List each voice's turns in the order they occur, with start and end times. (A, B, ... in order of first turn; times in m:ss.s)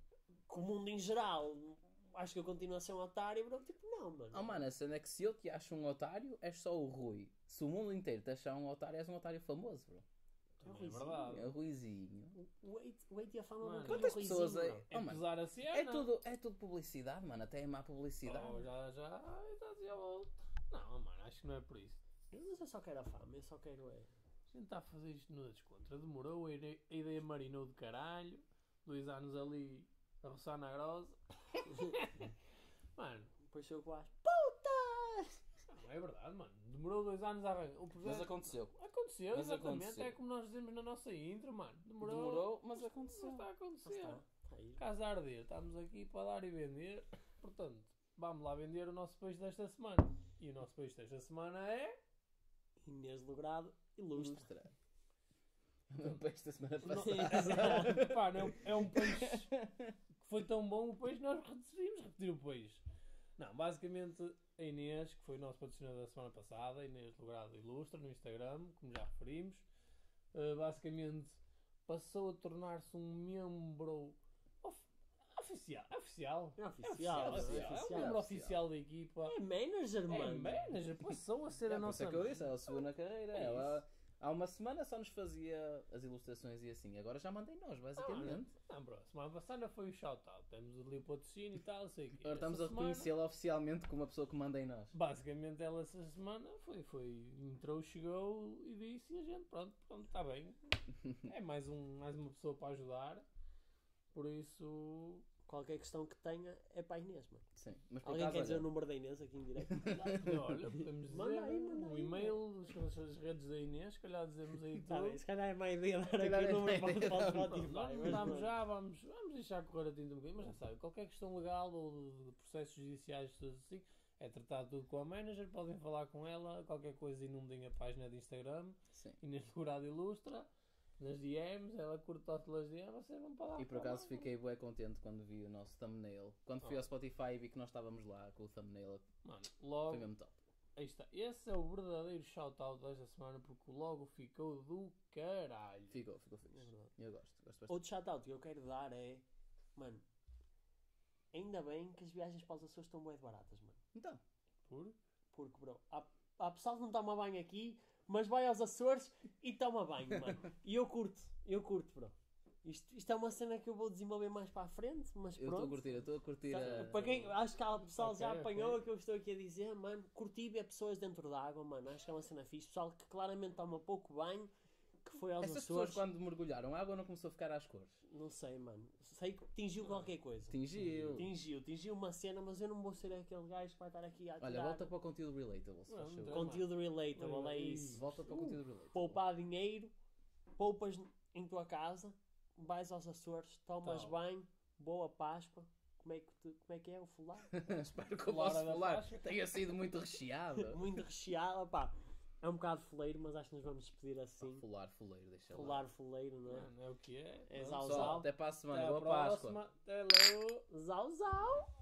0:00.5-0:04.6 A
0:04.3-0:10.0 B
0:10.6-0:11.5 C
0:10.6-0:11.4 A
0:11.3-0:12.3 B
0:12.3-0:14.8 A
0:13.6-0:14.1 C
0:13.8-0:18.6 B
0:14.9-0:16.1 C
0:18.2-0:22.0 C
0:22.3-0:24.1 A
0:24.5-0:32.3 C
0:33.0-0:33.3 C
0:33.5-0:35.3 A
0:35.7-0:44.2 C
0:38.0-0:38.7 B
0:39.3-0:40.2 B
0:42.0-0:43.4 B
0:43.8-0:44.8 A
0:44.8-0:51.9 C
0:52.8-0:54.5 A
0:54.1-0:54.7 B
0:55.9-0:59.9 B
0:56.9-0:57.9 A
0:57.1-0:59.5 C
1:00.2-1:02.8 C
1:03.4-1:09.6 C
1:10.3-1:19.4 C
1:16.6-1:18.2 A
1:17.1-1:18.6 B
1:19.2-1:20.6 A
1:20.1-1:22.6 C
1:21.7-1:28.5 B
1:23.3-1:23.8 C
1:28.0-1:33.1 C
1:32.2-1:34.9 B
1:34.9-1:43.2 C
1:44.1-1:45.2 C
1:45.4-1:47.4 A
1:47.6-1:48.7 B
1:48.0-1:49.8 A
1:49.6-1:50.5 B
1:49.9-1:55.2 C
1:51.1-1:52.4 A
1:54.8-1:58.5 A
1:56.1-1:57.6 B
1:57.5-2:14.3 C
2:08.9-2:09.2 B
2:13.6-2:19.1 B
2:19.2-2:20.1 C
2:19.9-2:20.4 B
2:20.8-2:26.0 C
2:25.9-2:27.8 B
2:26.5-2:26.9 A
2:27.7-2:29.2 A
2:29.7-2:30.0 A
2:31.3-2:33.8 A
2:33.9-2:34.2 B
2:34.7-2:34.9 C
2:35.3-2:54.5 A
2:45.4-2:47.2 B
2:46.8-2:47.3 C
2:48.0-2:48.8 C
2:55.0-2:56.0 A
2:55.4-2:57.9 B
2:58.1-3:00.6 A
2:59.8-3:00.1 C
3:00.5-3:01.3 B
3:00.8-3:01.2 C
3:01.1-3:04.9 A
3:04.4-3:06.5 B
3:05.9-3:08.0 C
3:06.3-3:09.9 A
3:08.0-3:09.2 B
3:10.6-3:17.6 A
3:13.8-3:14.1 C
3:17.5-3:20.9 B
3:18.2-3:19.2 C
3:20.6-3:24.6 A
3:24.4-3:25.8 B
3:25.5-3:26.7 A
3:26.5-3:30.6 C
3:27.5-3:28.2 A
3:27.8-3:29.6 B
3:30.7-3:31.7 A